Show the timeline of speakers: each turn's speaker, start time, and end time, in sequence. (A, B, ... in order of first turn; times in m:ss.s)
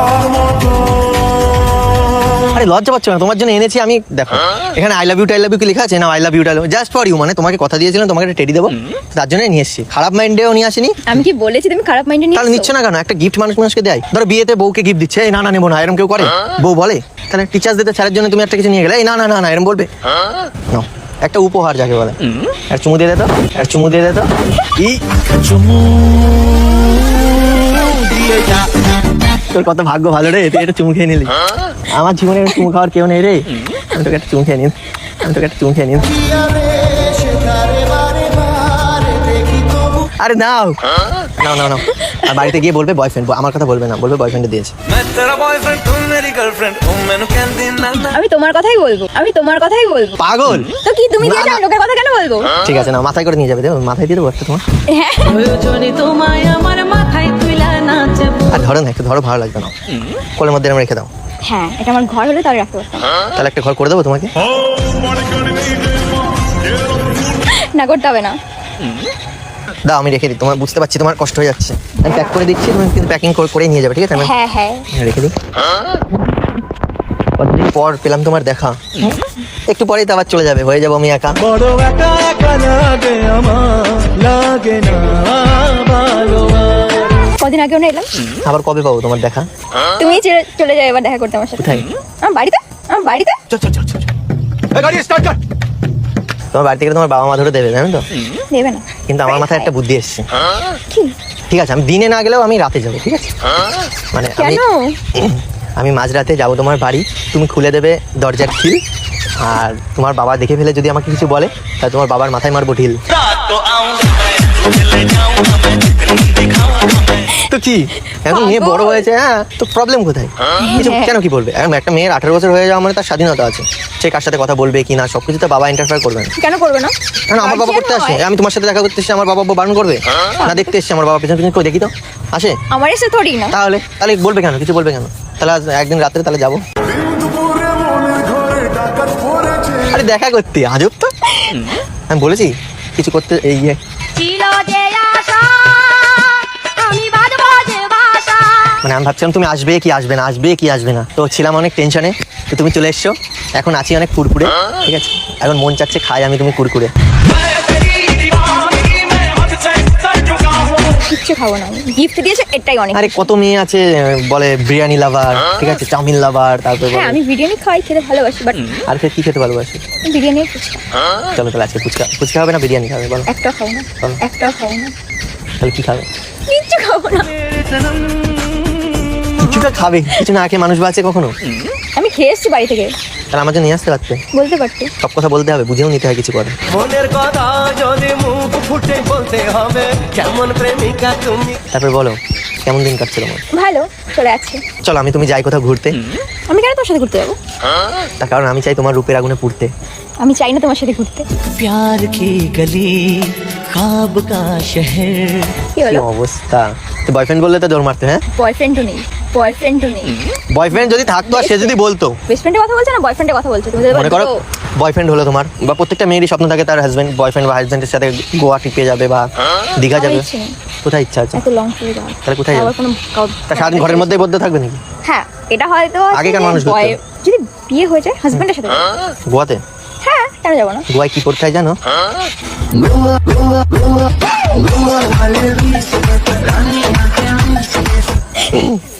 0:02.5-0:11.2 A
0:11.1-0:12.7 B
0:12.3-0:19.9 A
0:20.7-0:22.2 A
0:22.7-0:25.0 A
0:29.5-0:31.3 A
0:31.9-0:36.2 A
0:36.5-0:39.8 C
0:40.2-0:40.8 A
0:41.4-0:44.7 A
0:41.9-0:42.4 B
0:44.9-0:48.0 C
0:48.0-0:50.2 B
0:50.2-0:51.6 A
0:50.8-0:52.6 B
0:52.6-0:54.6 A
0:54.9-0:55.6 B
0:55.7-0:58.4 D
0:58.4-0:59.7 A
1:00.4-1:01.1 A
1:01.4-1:03.1 B
1:03.4-1:04.3 A
1:07.2-1:08.4 B
1:09.9-1:14.3 A
1:14.2-1:14.9 B
1:14.9-1:15.3 A
1:17.4-1:21.4 A
1:21.4-1:27.1 C
1:27.2-1:28.1 B
1:28.4-1:29.5 A
1:30.0-1:33.4 B
1:31.6-1:31.9 A
1:33.5-1:34.1 A
1:34.7-1:35.4 A
1:36.5-1:38.0 A
1:38.5-1:39.7 B
1:39.1-1:40.3 A
1:41.5-1:43.3 A
1:44.1-1:44.6 A
1:44.4-1:45.0 B
1:45.1-1:48.8 A
1:49.4-1:53.0 A
1:53.4-1:54.0 D
1:54.9-1:55.6 D
1:57.5-2:06.3 A
1:58.2-1:59.0 B
2:00.6-2:01.2 B
2:06.4-2:08.2 B
2:07.3-2:12.5 A
2:10.4-2:10.7 B
2:12.7-2:13.6 B
2:13.5-2:16.6 A
2:17.2-2:17.6 A
2:19.0-2:21.1 A
2:21.4-2:21.8 B
2:22.1-2:23.8 A
2:28.8-2:36.9 A
2:40.8-2:43.3 B
2:42.9-2:47.2 A
2:46.9-2:48.8 B
2:48.9-2:49.8 A
2:50.0-2:50.8 B
2:51.3-2:53.3 A
2:53.3-2:54.9 B
2:55.6-2:56.1 A
2:56.5-2:57.3 B
2:57.5-2:59.3 C
2:59.4-3:01.3 A
3:02.0-3:02.9 B
3:03.3-3:04.2 A
3:04.3-3:04.9 B
3:05.0-3:06.6 A
3:06.7-3:11.6 C
3:11.7-3:13.4 A
3:13.5-3:14.6 B
3:14.8-3:16.0 A
3:16.5-3:17.4 B
3:18.2-3:19.7 A
3:20.2-3:21.2 B
3:21.5-3:25.5 D
3:25.7-3:26.0 B
3:25.8-3:28.2 A
3:28.3-3:30.2 B
3:30.5-3:32.2 A
3:31.0-3:31.7 B
3:32.3-3:34.4 B
3:33.9-3:40.2 A
3:39.9-3:40.6 B
3:40.8-3:41.4 A
3:41.3-3:44.2 B
3:42.2-3:42.7 A
3:43.5-3:44.8 A
3:45.0-3:48.9 B
3:46.1-3:47.0 A
3:49.3-3:49.6 A
3:50.0-3:50.8 B
3:50.9-3:51.8 A
3:52.8-3:53.9 C
3:54.6-3:57.3 C
3:58.5-3:58.8 A